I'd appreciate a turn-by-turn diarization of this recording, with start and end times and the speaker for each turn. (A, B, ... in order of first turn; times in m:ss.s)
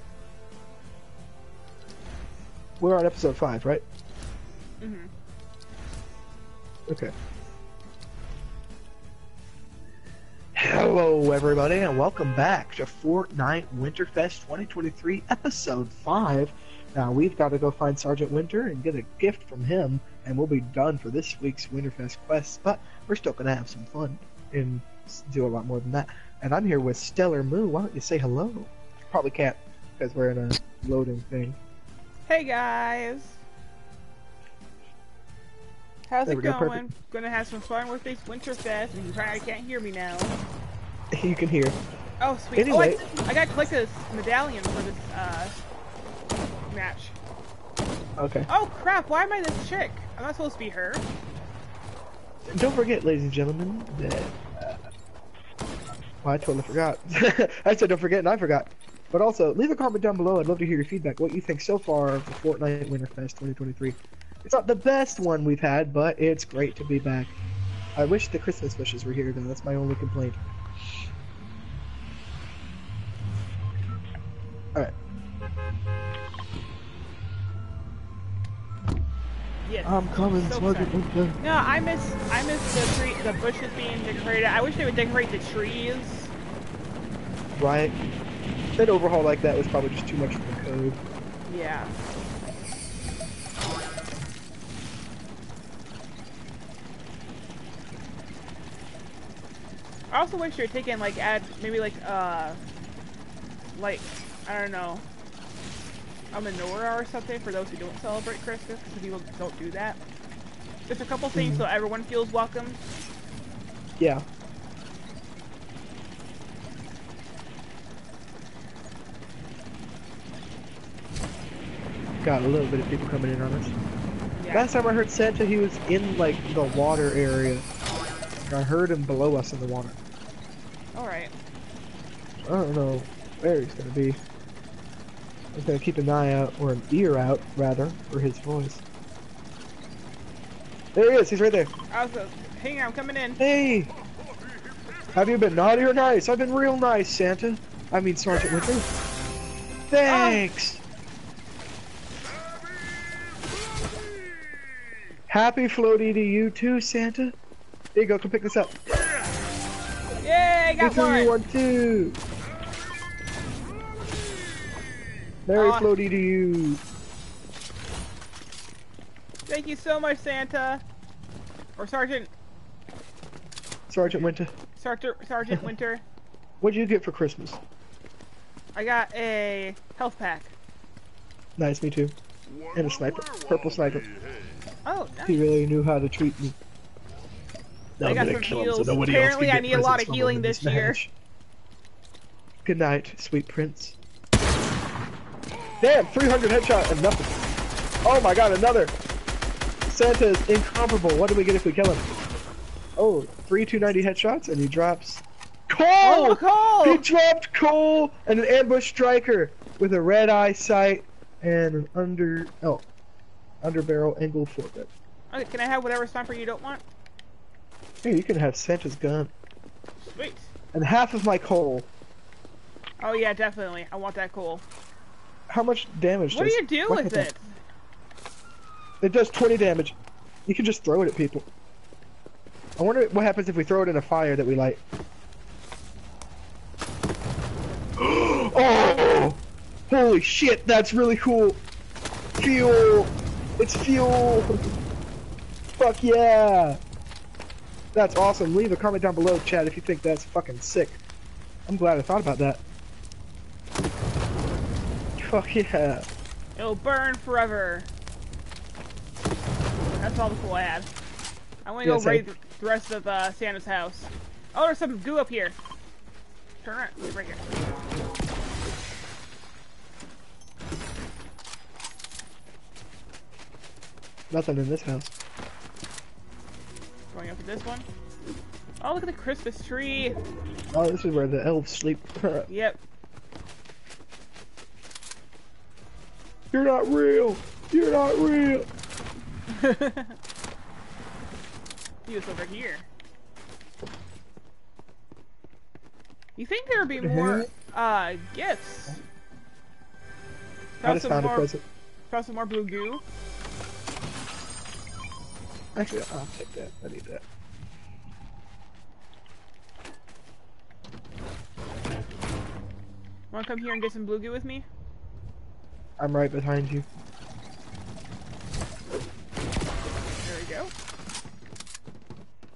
0:02.8-0:03.8 A
0:04.8-0:05.1 B
0:06.9-0:07.1 A
0:10.6-0:31.6 A
0:32.3-0:33.4 B
0:36.1-0:40.4 B
0:36.3-0:36.9 A
0:41.1-0:41.8 A
0:42.2-0:45.6 B
0:42.6-0:43.0 A
0:46.7-0:47.2 B
0:48.2-0:48.5 A
0:48.5-0:51.1 B
0:52.6-0:54.9 A
0:56.2-1:07.3 A
1:08.0-1:10.4 A
1:19.6-1:26.3 B
1:19.8-1:21.4 A
1:27.6-1:28.0 A
1:28.8-1:31.0 A
1:31.5-1:32.0 B
1:40.1-1:42.6 B
1:43.8-1:45.0 B
1:46.3-1:50.0 B
1:50.9-1:52.8 B
1:51.3-1:51.7 A
1:54.0-1:54.2 A
2:02.2-2:03.8 A
2:04.4-2:04.7 B
2:04.5-2:07.7 A
2:08.5-2:10.0 A
2:10.9-2:11.3 B
2:12.4-2:14.2 A
2:15.5-2:18.8 A
2:20.9-2:21.7 A
2:21.9-2:23.4 B
2:23.4-2:23.9 A
2:25.1-2:28.9 A
2:29.9-2:30.8 A
2:30.0-2:30.4 B
2:35.3-2:37.4 A
2:37.9-2:38.8 A
2:40.2-2:41.4 B
2:40.8-2:42.2 A
2:45.5-2:46.8 A
2:45.6-2:45.9 B
2:49.5-2:50.8 B
2:51.8-2:52.3 B
2:53.9-2:54.5 A
2:54.8-2:56.0 B
2:56.6-2:57.6 A
2:58.7-3:00.5 B
3:01.6-3:02.2 A
3:02.7-3:04.1 A
3:04.8-3:05.4 B
3:05.3-3:06.6 A
3:08.0-3:11.1 A
3:08.0-3:11.0 B
3:12.6-3:14.0 A
3:15.8-3:17.4 A
3:18.0-3:18.9 A
3:19.9-3:22.1 A
3:23.0-3:32.8 A
3:26.0-3:27.1 B
3:33.6-3:34.9 A
3:35.3-3:36.8 B
3:38.0-3:39.3 A
3:40.0-3:40.5 B
3:40.7-3:41.9 A
3:43.0-3:44.6 B
3:45.5-3:47.3 A
3:46.3-3:47.5 B
3:49.0-3:51.5 A
3:52.8-3:54.8 A
3:58.0-4:01.6 A
4:02.4-4:04.6 A
4:05.7-4:06.8 A
4:07.9-4:11.0 A
4:11.7-4:12.6 A
4:15.2-4:16.1 A
4:16.6-4:17.9 B
4:20.0-4:20.9 B
4:21.6-4:25.6 B
4:21.8-4:22.3 A
4:26.6-4:27.4 B
4:34.3-4:35.1 A
4:37.1-4:37.9 B
4:38.8-4:40.2 B
4:40.7-4:42.5 A
4:42.5-4:42.8 B
4:46.5-4:48.7 A
4:49.5-4:50.2 B
4:52.0-4:52.9 B
4:56.4-4:59.0 B
4:57.0-4:57.5 A
5:00.8-5:01.5 B
5:00.8-5:01.6 A
5:02.1-5:03.0 B
5:05.8-5:07.2 A
5:13.3-5:14.6 B
5:16.0-5:16.8 A
5:20.2-5:20.7 B